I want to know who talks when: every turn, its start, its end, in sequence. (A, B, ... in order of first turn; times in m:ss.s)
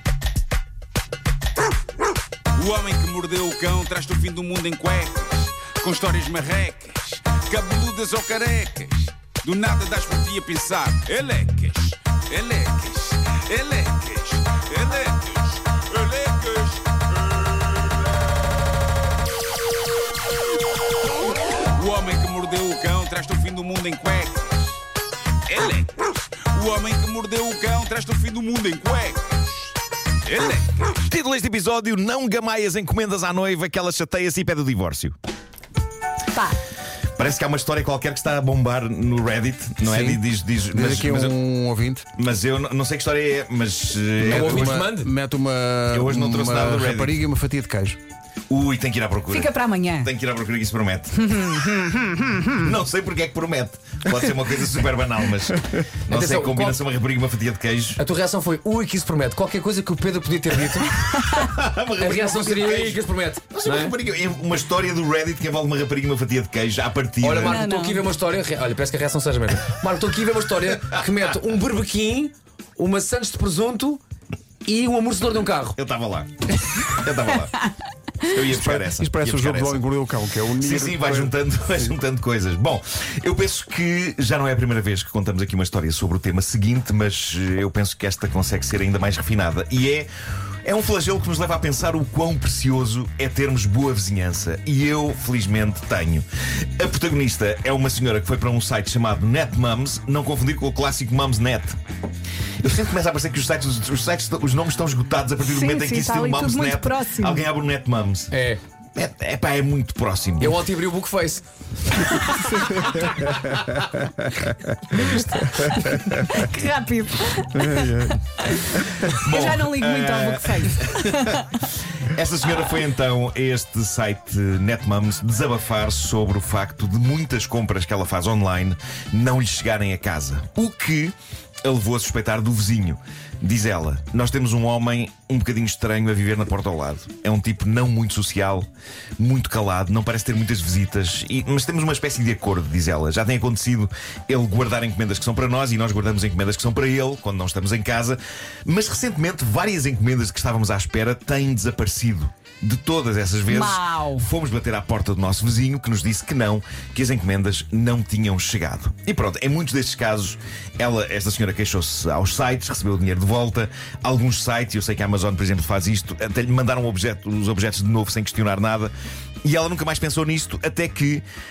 0:02.5-0:17.9 A
0:21.6-0:24.8 A
0:25.5-0:29.7 A
0:30.2-0:30.9 A
0:30.9-0:35.2 B
0:36.3-0:36.6 C
0:37.1-0:41.4 B
0:39.8-0:42.0 D
0:42.2-0:44.9 B
0:44.2-0:48.0 D
0:44.2-0:45.1 E
0:45.9-0:47.2 B
0:48.5-0:51.3 B
0:49.3-0:50.1 C
0:51.2-0:52.7 C
0:52.6-0:58.0 B
0:56.1-0:56.8 E
0:58.0-1:01.1 E
1:01.1-1:07.6 B
1:02.0-1:03.9 E
1:07.2-1:14.0 E
1:07.4-1:08.0 C
1:14.6-1:15.8 E
1:15.8-1:17.6 B
1:18.2-1:19.8 B
1:18.5-1:21.3 D
1:20.6-1:30.1 B
1:30.6-1:41.8 B
1:42.6-1:48.3 B
1:45.4-1:47.5 C
1:48.3-1:48.6 E
1:49.0-1:50.6 B
1:50.4-1:53.6 E
1:52.3-1:52.6 C
1:54.9-1:55.8 E
1:56.1-2:01.5 C
1:57.6-1:58.2 D
1:59.0-2:48.9 B
2:33.5-2:34.3 C
2:49.4-2:51.2 B